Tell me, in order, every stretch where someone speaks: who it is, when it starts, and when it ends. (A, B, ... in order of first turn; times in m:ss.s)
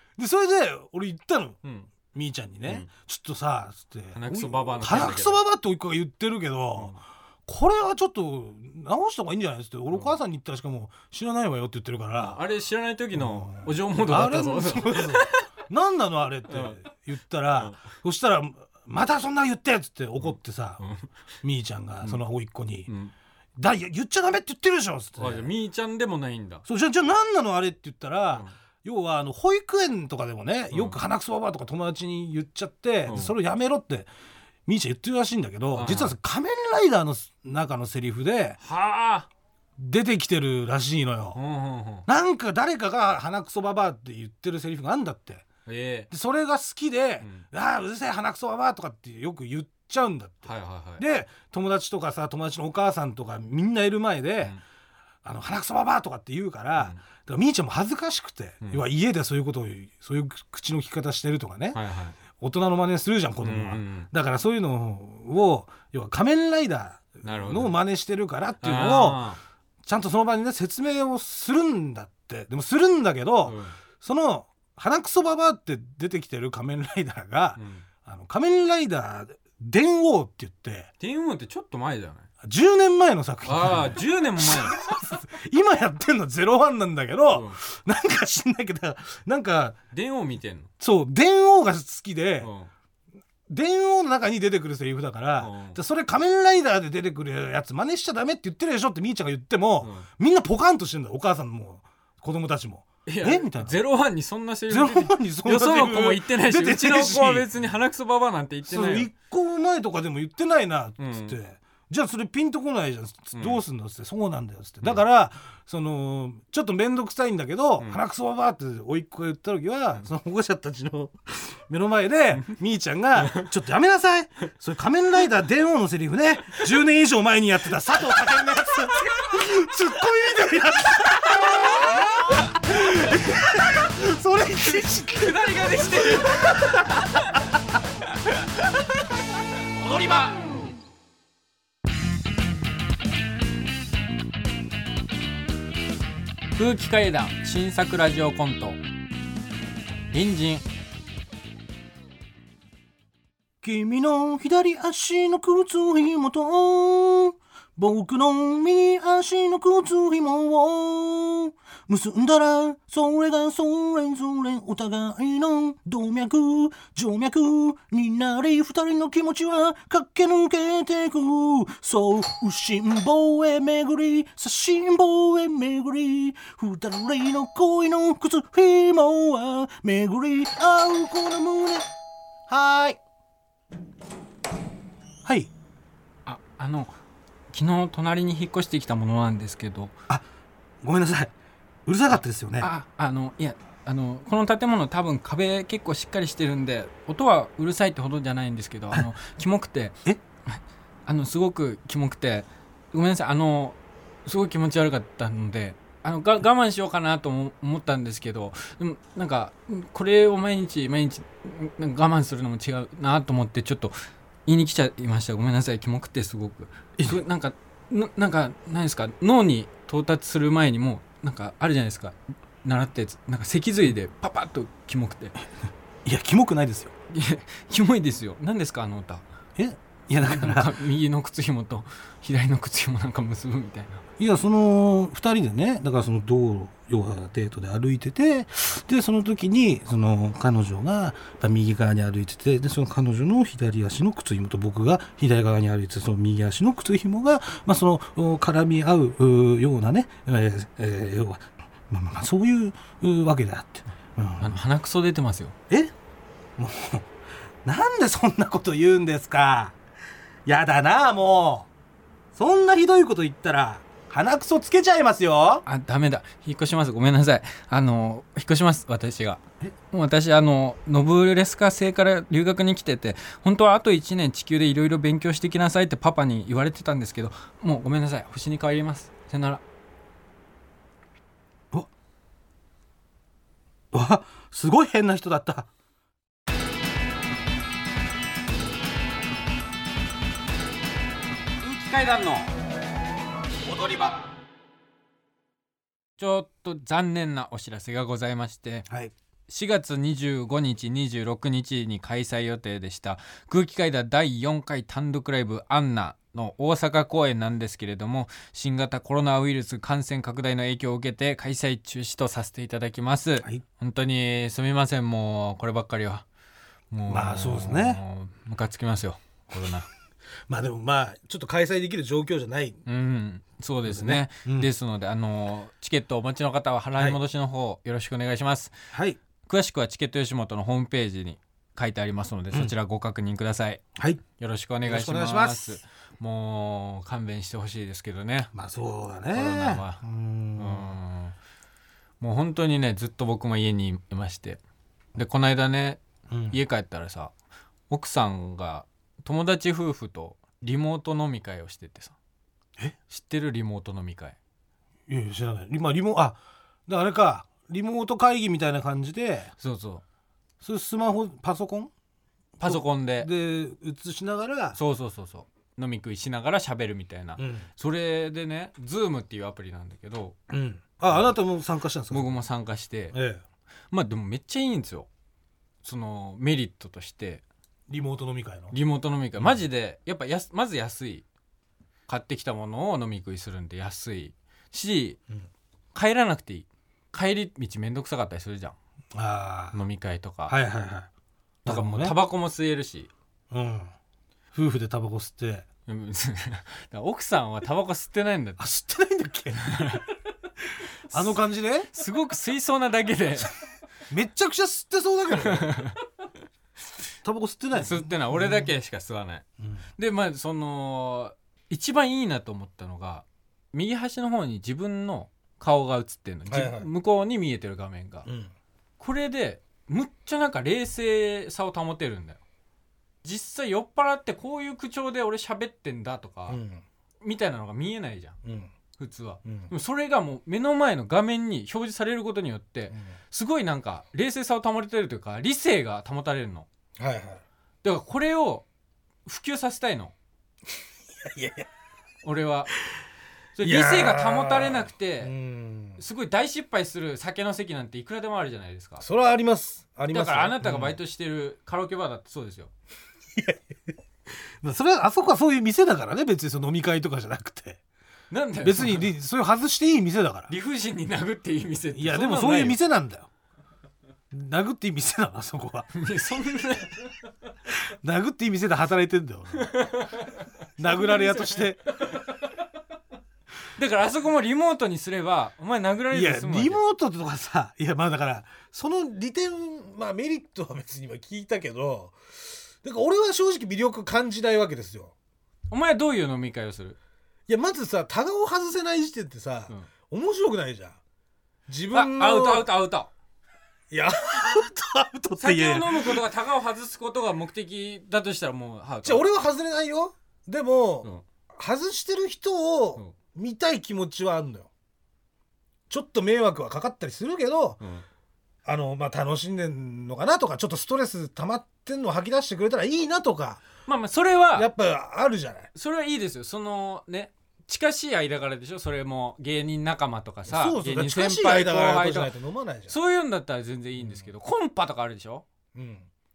0:00.2-0:01.6 A
0:01.6-0:01.9 B
0:02.1-0:06.9 A
0:04.1-0:05.4 B
0:07.5-0:12.4 A
0:12.2-0:15.4 B
0:13.1-0:20.8 A
0:16.5-0:16.8 B
0:17.6-0:17.9 B
0:20.2-0:21.1 B
0:21.4-0:22.9 A
0:22.9-0:23.1 B
0:23.6-0:25.5 A
0:25.2-0:26.6 B
0:26.6-0:34.1 A
0:30.7-0:31.0 B
0:33.1-0:33.3 B
0:34.6-0:38.6 A
0:35.7-0:36.2 B
0:38.6-0:39.3 B
0:39.8-0:41.4 A
0:41.3-0:42.0 B
0:42.0-0:45.4 A
0:45.6-0:46.1 B
0:46.1-0:54.6 A
0:47.2-0:47.5 B
0:50.4-0:51.0 B
0:55.2-1:09.2 A
1:01.7-1:02.2 B
1:03.4-1:04.1 B
1:07.2-1:07.7 B
1:08.6-1:09.4 B
1:09.8-1:20.9 A
1:13.4-1:13.8 B
1:17.6-1:17.8 B
1:21.0-1:22.3 B
1:22.4-1:29.8 A
1:23.4-1:24.8 B
1:27.3-1:27.6 B
1:29.9-1:30.7 B
1:30.8-1:32.5 A
1:32.4-1:32.7 B
1:33.5-1:43.8 A
1:35.4-1:35.8 B
1:39.8-1:40.1 B
1:43.0-1:49.1 B
1:44.7-1:47.5 A
1:48.6-2:17.1 A
1:51.0-1:51.4 B
1:53.3-1:53.6 B
2:03.2-2:03.5 B
2:11.2-2:12.5 B
2:14.6-2:17.3 B
2:20.0-2:20.3 B
2:26.6-2:28.8 B
2:30.1-2:30.6 B
2:33.6-3:01.9 A
3:02.5-3:03.0 A
3:05.2-3:05.5 A
3:06.2-3:07.0 B
3:07.5-3:10.0 B
3:10.8-3:11.3 A
3:11.8-3:12.7 A
3:12.6-3:33.9 B
3:34.4-3:45.4 B
3:46.0-3:46.9 A
3:47.1-3:49.2 B
3:49.6-3:50.8 A
3:50.2-3:54.0 B
3:54.2-4:14.6 A
4:14.4-4:15.5 B
4:16.6-4:17.1 A
4:17.6-4:19.8 A
4:20.4-4:21.7 A
4:22.3-4:25.6 A
4:25.6-4:39.6 B
4:43.9-4:45.7 A
4:51.6-4:52.5 B
4:56.2-4:58.9 B
4:59.5-5:16.2 B
5:16.9-5:19.9 B
5:17.1-5:18.0 A
5:20.5-5:22.8 A
5:22.8-5:28.8 B
5:23.9-5:24.7 A
5:28.9-5:29.2 A
5:29.4-5:33.8 B
5:34.0-5:34.2 A
5:34.4-5:38.5 B
5:34.8-5:35.8 A
5:38.5-5:40.9 A
5:39.3-5:40.0 B
5:40.6-5:41.4 B
5:42.2-5:44.6 B
5:45.1-5:47.3 B
5:46.3-5:46.6 A
5:47.9-5:52.2 B
5:53.1-5:54.4 B
5:55.1-5:59.5 A
5:59.6-6:00.0 B
6:00.6-6:01.9 A
6:02.6-6:04.8 A
6:02.6-6:03.3 B
6:04.7-6:10.4 B
6:07.4-6:07.7 A
6:10.5-6:12.3 A
6:12.1-6:13.2 B
6:13.1-6:13.4 A
6:13.9-6:15.1 B
6:15.8-6:17.4 B
6:17.9-6:18.7 A
6:18.7-6:21.2 B
6:22.1-6:25.2 B
6:25.9-6:28.8 B
6:29.1-6:29.8 A
6:29.7-6:30.6 B
6:30.5-6:31.1 A
6:31.6-6:32.2 A
6:31.6-6:33.1 B
6:33.5-6:33.9 A
6:34.5-6:35.6 A
6:35.9-6:38.6 B
6:38.6-6:40.0 A
6:39.6-6:40.1 B
6:41.1-6:41.4 B
6:41.1-6:41.9 A
6:41.9-6:43.5 B
6:44.1-6:45.9 A
6:45.4-6:46.0 B
6:47.2-6:48.7 A
6:47.7-6:49.4 B
6:50.0-6:58.3 B
6:56.5-6:56.9 A
6:58.2-6:58.5 A
6:59.0-7:02.4 B
7:03.2-7:06.6 B
7:06.5-7:06.8 A
7:07.2-7:08.4 B
7:08.4-7:08.7 A
7:09.0-7:16.7 B
7:09.4-7:09.7 A
7:17.0-7:17.4 A
7:17.8-7:18.6 B
7:19.2-7:20.1 B
7:21.2-7:21.7 A
7:22.2-7:22.7 B
7:23.6-7:25.3 B
7:23.6-7:26.0 A
7:26.0-7:29.0 B
7:29.0-7:31.0 A
7:30.1-7:32.7 B
7:33.3-7:37.8 A
7:38.3-7:39.1 B
7:38.6-7:40.5 A
7:40.5-7:42.8 B
7:41.9-7:43.3 A
7:44.3-7:45.9 A
7:45.9-7:47.1 B
7:47.7-7:49.7 A
7:49.5-7:50.4 B
7:50.8-7:51.8 A
7:50.9-7:51.6 B
7:53.8-7:56.8 B
7:56.1-8:05.1 A
8:05.7-8:07.0 B
8:07.5-8:11.0 A
8:11.7-8:12.7 A
8:11.9-8:13.1 B
8:13.9-8:16.2 A
8:15.4-8:19.2 B
8:19.0-8:24.7 A
8:25.9-8:27.8 A
8:28.6-8:33.6 A
8:33.9-8:34.7 B
8:34.5-8:35.7 A
8:35.7-8:42.3 B
8:40.5-8:42.9 A
8:42.9-8:45.4 B
8:44.0-8:44.3 A
8:45.7-8:46.1 A